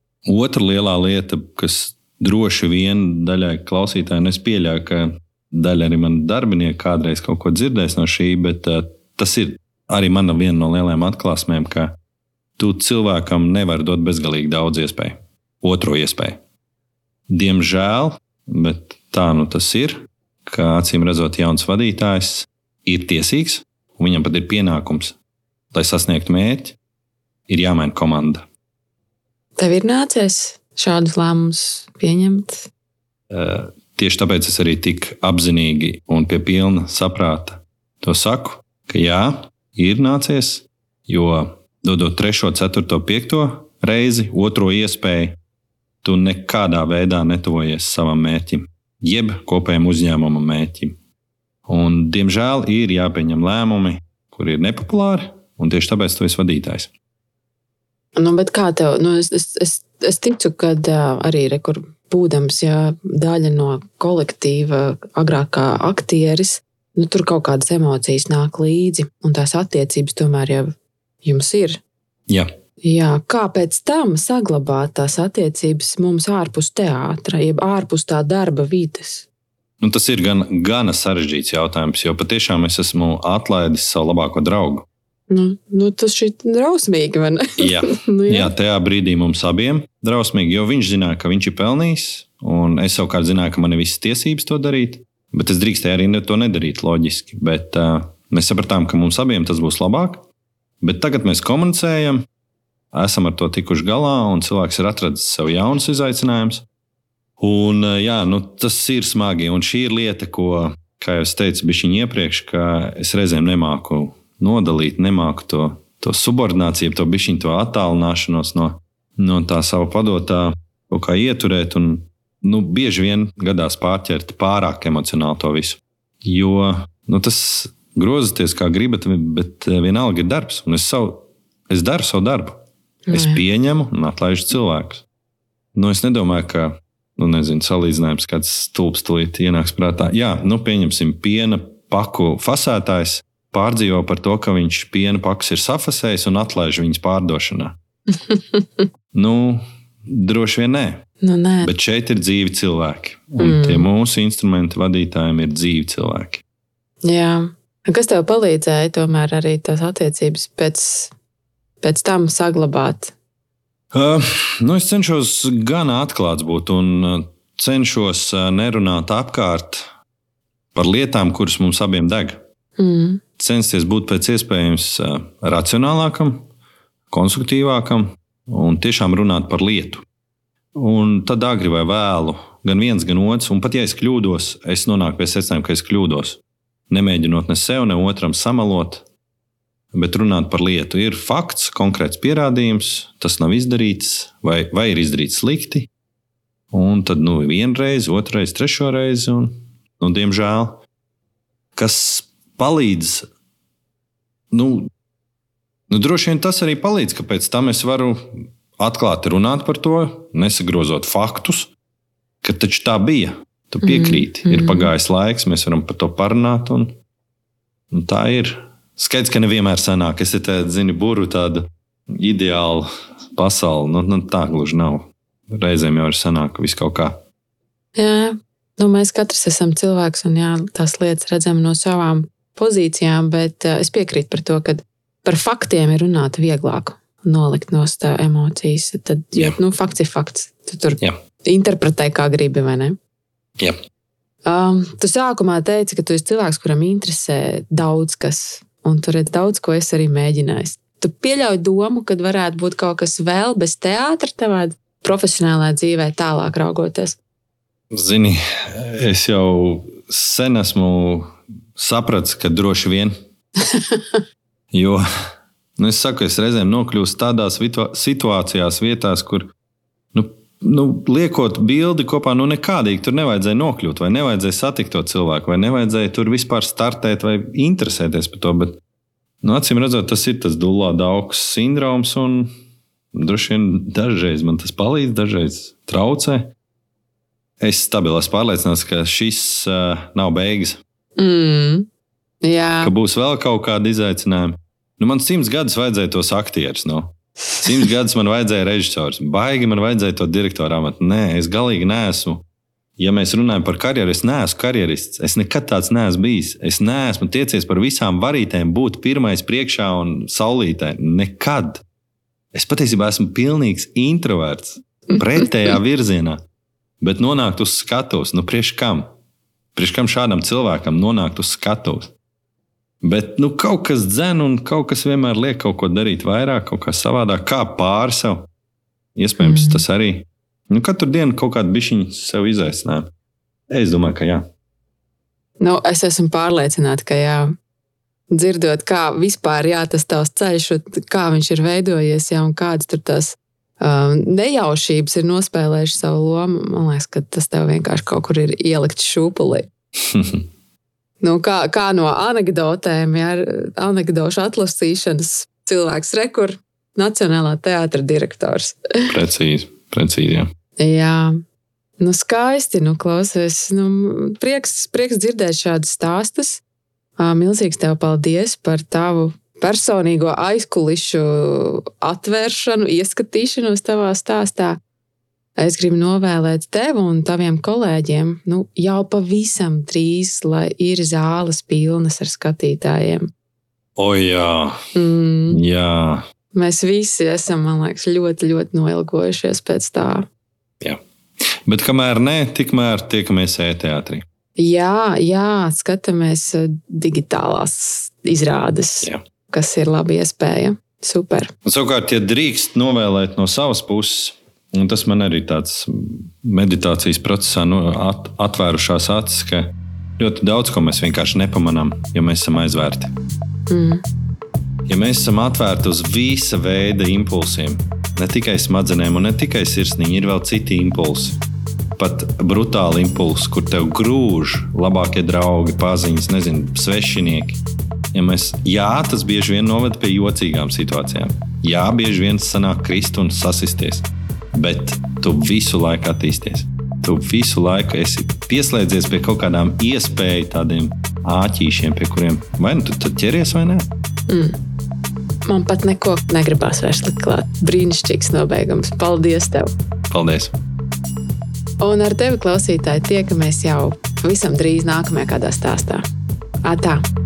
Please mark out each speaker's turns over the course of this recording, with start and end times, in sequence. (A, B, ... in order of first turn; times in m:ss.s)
0:00.2-0:12.0 A
0:12.6-0:16.4 A
0:17.3-0:25.2 A
0:25.7-0:26.8 A
0:27.5-0:28.4 A
0:29.6-0:32.7 B
0:33.3-0:45.4 A
0:46.0-0:51.0 A
0:51.7-0:56.9 A
0:58.2-1:11.8 B
1:12.8-1:19.3 B
1:19.8-1:24.8 A
1:25.3-1:28.5 B
1:27.6-1:40.2 A
1:40.8-1:42.2 A
1:42.9-1:46.6 A
1:47.4-2:12.6 A
2:13.0-2:13.4 B
2:13.1-2:15.0 A
2:15.7-2:27.8 A
2:28.1-2:28.9 B
2:29.1-2:31.0 A
2:31.2-2:31.7 B
2:31.6-2:36.4 A
2:33.4-2:33.9 B
2:37.0-2:41.1 B
2:41.8-2:43.1 B
2:43.9-2:49.9 A
2:50.7-2:52.4 A
2:52.8-2:53.2 B
2:53.4-2:56.4 A
2:57.1-3:00.0 A
3:00.7-3:09.0 A
3:09.9-3:15.9 A
3:16.7-3:20.8 A
3:21.8-3:23.2 A
3:24.5-3:24.9 A
3:25.9-3:31.7 A
3:32.4-3:36.9 A
3:33.8-3:34.9 B
3:37.9-3:47.2 A
3:48.0-4:03.0 B
4:04.4-4:17.2 B
4:17.9-4:23.1 A
4:23.6-4:24.2 B
4:24.7-4:25.0 A
4:25.8-4:29.5 A
4:30.1-4:38.8 A
4:39.4-4:42.5 A
4:43.1-4:46.5 A
4:47.6-4:50.8 A
4:51.2-4:51.9 B
4:52.4-4:52.9 B
4:52.8-5:02.4 A
5:03.0-5:11.8 A
5:12.5-5:16.4 A
5:17.0-5:19.1 A
5:19.7-5:22.1 A
5:23.0-5:28.5 A
5:29.2-5:33.1 A
5:29.4-5:29.8 B
5:33.7-5:34.4 A
5:35.6-5:37.5 B
5:38.3-5:49.7 B
5:50.0-5:50.4 A
5:51.2-5:59.1 B
5:59.1-6:00.5 A
6:00.8-6:01.4 B
6:02.0-6:06.6 B
6:07.2-6:14.8 B
6:15.6-6:23.3 B
6:24.0-6:24.8 A
6:24.9-6:25.6 B
6:25.5-6:26.2 A
6:26.5-6:30.2 B
6:31.6-6:34.2 A
6:34.6-6:41.5 B
6:41.6-6:53.1 A
6:53.7-6:54.0 B
6:54.9-7:01.4 A
7:02.0-7:07.6 A
7:08.1-7:23.9 A
7:24.3-7:24.6 B
7:25.4-7:29.7 B
7:30.1-7:30.5 A
7:31.8-7:36.0 B
7:36.6-7:37.0 B